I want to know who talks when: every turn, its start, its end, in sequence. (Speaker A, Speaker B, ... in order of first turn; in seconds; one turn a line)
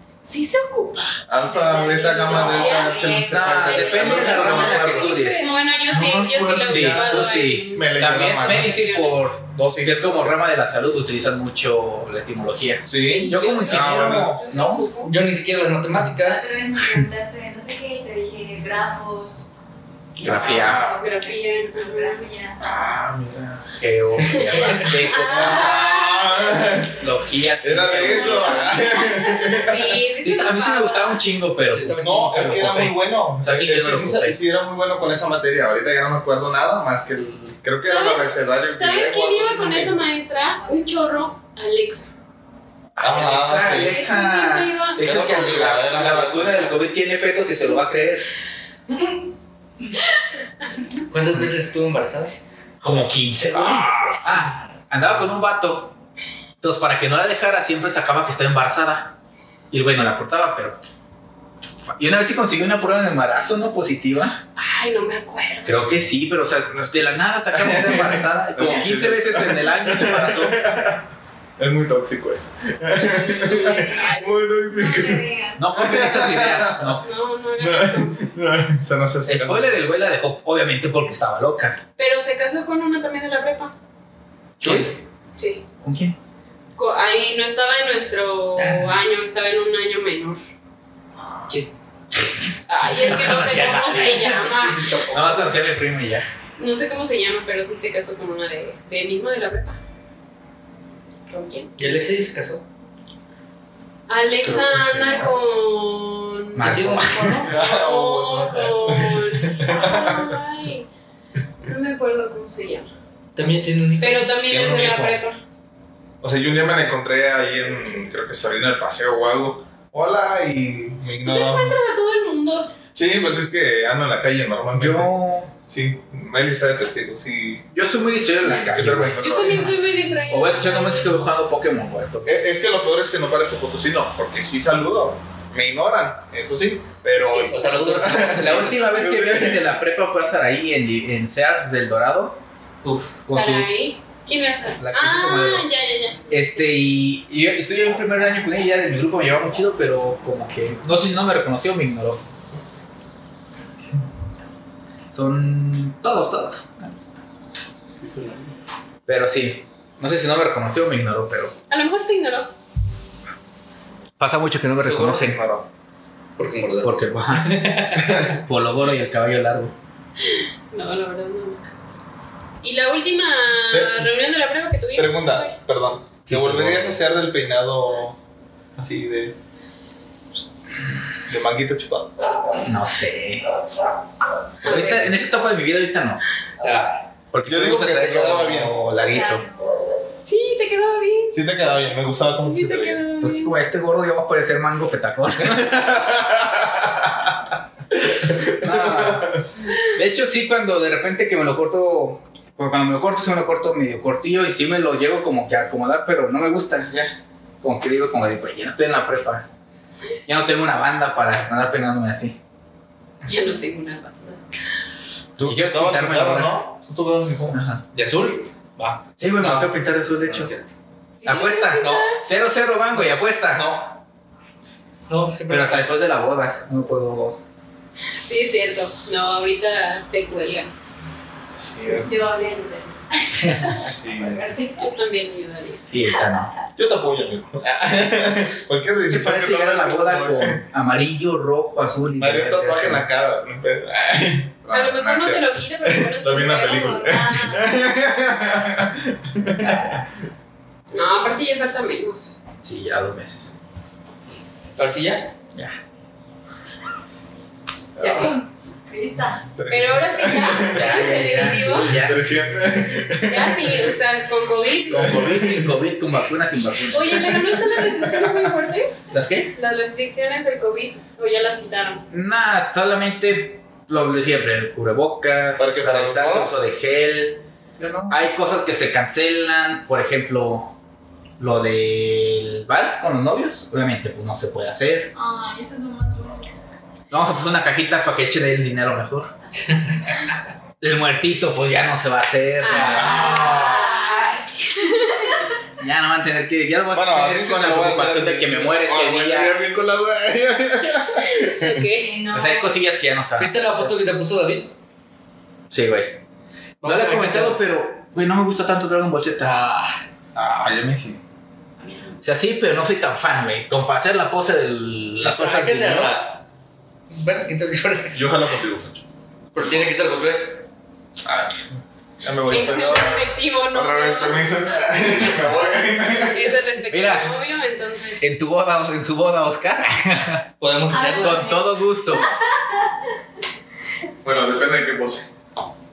Speaker A: 0.2-9.2
Speaker B: 1.3-5.2
Speaker C: 2.2-4.0
Speaker D: 3.2-5.5
Speaker C: 5.2-6.3
Speaker B: 5.9-8.8
Speaker D: 6.5-14.9
Speaker B: 9.5-10.4
Speaker B: 12.8-14.4
Speaker A: 12.9-15.2
Speaker E: 15.0-16.4
Speaker C: 16.2-19.5
Speaker D: 20.2-20.8
Speaker B: 20.2-21.0
Speaker C: 20.2-22.6
Speaker A: 20.4-22.2
Speaker B: 22.6-23.7
Speaker D: 23.7-28.8
Speaker E: 24.2-25.0
Speaker A: 24.3-26.4
Speaker B: 25.2-27.0
Speaker B: 27.6-30.0
Speaker A: 28.1-31.2
Speaker D: 30.2-34.4
Speaker E: 31.7-32.4
Speaker B: 32.0-40.0
Speaker A: 37.8-42.1
Speaker D: 43.0-48.2
Speaker B: 43.0-44.1
Speaker A: 43.5-45.6
Speaker B: 45.0-46.8
Speaker E: 51.1-52.3
Speaker D: 52.8-55.9
Speaker B: 53.5-54.2
Speaker D: 56.6-59.1
Speaker D: 59.7-60.8
Speaker D: 61.9-64.4
Speaker A: 64.5-65.9
Speaker D: 65.6-70.6
Speaker B: 66.7-77.0
Speaker C: 73.0-75.8
Speaker A: 73.2-74.3
Speaker D: 75.6-77.0
Speaker A: 77.0-78.2
Speaker B: 77.6-79.8
Speaker D: 79.2-81.8
Speaker A: 82.0-83.7
Speaker D: 84.6-85.0
Speaker E: 84.6-84.9
Speaker A: 85.4-85.6
Speaker D: 85.8-86.2
Speaker A: 86.8-90.4
Speaker E: 88.5-89.0
Speaker D: 91.5-96.2
Speaker A: 92.7-94.9
Speaker E: 94.0-95.5
Speaker A: 96.6-99.8
Speaker A: 101.3-101.7
Speaker E: 101.8-102.6
Speaker A: 104.1-110.8
Speaker B: 104.4-105.3
Speaker D: 106.5-107.5
Speaker E: 106.6-107.5
Speaker B: 107.4-110.4
Speaker A: 111.6-112.9
Speaker E: 113.3-114.4
Speaker A: 114.0-115.4
Speaker B: 114.5-115.2
Speaker B: 116.2-121.8
Speaker A: 121.2-122.7
Speaker B: 122.9-127.7
Speaker D: 124.7-125.5
Speaker D: 127.7-129.7
Speaker B: 128.4-129.7
Speaker A: 129.2-131.1
Speaker D: 130.3-132.4
Speaker B: 132.2-139.7
Speaker E: 137.5-138.8
Speaker D: 138.1-142.4
Speaker E: 142.8-143.2
Speaker D: 143.2-143.7
Speaker A: 143.3-146.2
Speaker D: 144.8-145.7
Speaker D: 146.3-152.2
Speaker D: 155.1-156.9
Speaker B: 158.0-158.6
Speaker D: 159.1-161.5
Speaker A: 161.7-162.5
Speaker D: 164.2-165.4
Speaker E: 164.8-165.4
Speaker B: 165.2-165.7
Speaker E: 166.4-168.3
Speaker D: 166.8-167.6
Speaker D: 168.3-169.7
Speaker A: 170.3-171.6
Speaker A: 172.6-175.5
Speaker B: 173.7-174.1
Speaker B: 174.9-178.2
Speaker D: 176.3-177.0
Speaker B: 178.8-179.3
Speaker B: 181.3-182.1
Speaker D: 182.6-183.5
Speaker D: 184.6-186.2
Speaker A: 184.6-185.2
Speaker E: 186.6-187.0
Speaker D: 187.3-189.4
Speaker B: 187.4-188.8
Speaker C: 188.9-189.6
Speaker A: 190.2-191.4
Speaker B: 191.3-193.0
Speaker A: 192.4-193.5
Speaker D: 193.2-195.8
Speaker B: 195.4-197.3
Speaker B: 198.0-199.4
Speaker D: 198.5-209.4
Speaker D: 210.2-212.4
Speaker A: 213.2-214.4
Speaker B: 215.4-217.6
Speaker D: 215.4-216.6
Speaker D: 217.5-217.8
Speaker E: 217.9-220.7
Speaker D: 219.2-220.5
Speaker A: 221.2-222.2
Speaker D: 221.2-223.9
Speaker E: 225.1-225.9
Speaker D: 225.5-227.4
Speaker A: 228.2-230.7
Speaker B: 231.6-232.1
Speaker C: 231.8-234.9
Speaker D: 233.4-233.9
Speaker B: 233.7-234.5
Speaker A: 234.8-235.8
Speaker D: 235.9-236.5
Speaker B: 236.7-240.6
Speaker D: 239.0-243.1
Speaker B: 242.2-250.0
Speaker A: 244.7-247.3
Speaker C: 247.1-247.7
Speaker A: 250.9-252.3
Speaker D: 252.6-253.5
Speaker E: 254.8-255.3
Speaker B: 257.9-258.3
Speaker C: 258.0-259.5
Speaker B: 259.6-261.0
Speaker A: 259.7-261.9
Speaker D: 260.7-262.4
Speaker E: 260.7-261.7
Speaker B: 261.7-263.9
Speaker A: 263.3-265.2
Speaker D: 264.9-267.4
Speaker B: 264.9-265.7
Speaker A: 266.9-269.0
Speaker B: 267.1-268.6
Speaker D: 269.1-269.5
Speaker A: 269.5-272.0
Speaker D: 272.1-277.4
Speaker B: 275.6-276.6
Speaker B: 277.8-278.2
Speaker D: 278.1-280.7
Speaker D: 281.4-285.1
Speaker C: 285.1-286.6
Speaker D: 287.1-289.3
Speaker D: 290.8-293.4
Speaker A: 292.6-295.2
Speaker E: 292.7-293.2
Speaker C: 292.8-295.4
Speaker B: 293.2-293.9
Speaker D: 295.8-299.6
Speaker B: 296.9-301.9
Speaker A: 301.3-302.1
Speaker C: 301.9-302.8
Speaker D: 302.3-303.9
Speaker E: 303.4-304.7
Speaker D: 305.7-306.2
Speaker E: 306.8-307.6
Speaker D: 306.8-309.5
Speaker E: 309.4-310.0
Speaker B: 310.3-311.2
Speaker C: 311.8-312.2
Speaker D: 312.2-316.2
Speaker E: 315.2-316.4
Speaker E: 317.1-318.2
Speaker B: 318.1-319.0
Speaker E: 319.5-320.7
Speaker B: 321.2-321.6
Speaker B: 322.2-326.6
Speaker A: 322.5-325.0
Speaker A: 326.2-328.2
Speaker D: 326.9-327.3
Speaker D: 328.2-330.5
Speaker E: 330.6-331.5
Speaker C: 330.9-332.9
Speaker D: 331.0-332.3
Speaker B: 334.2-335.3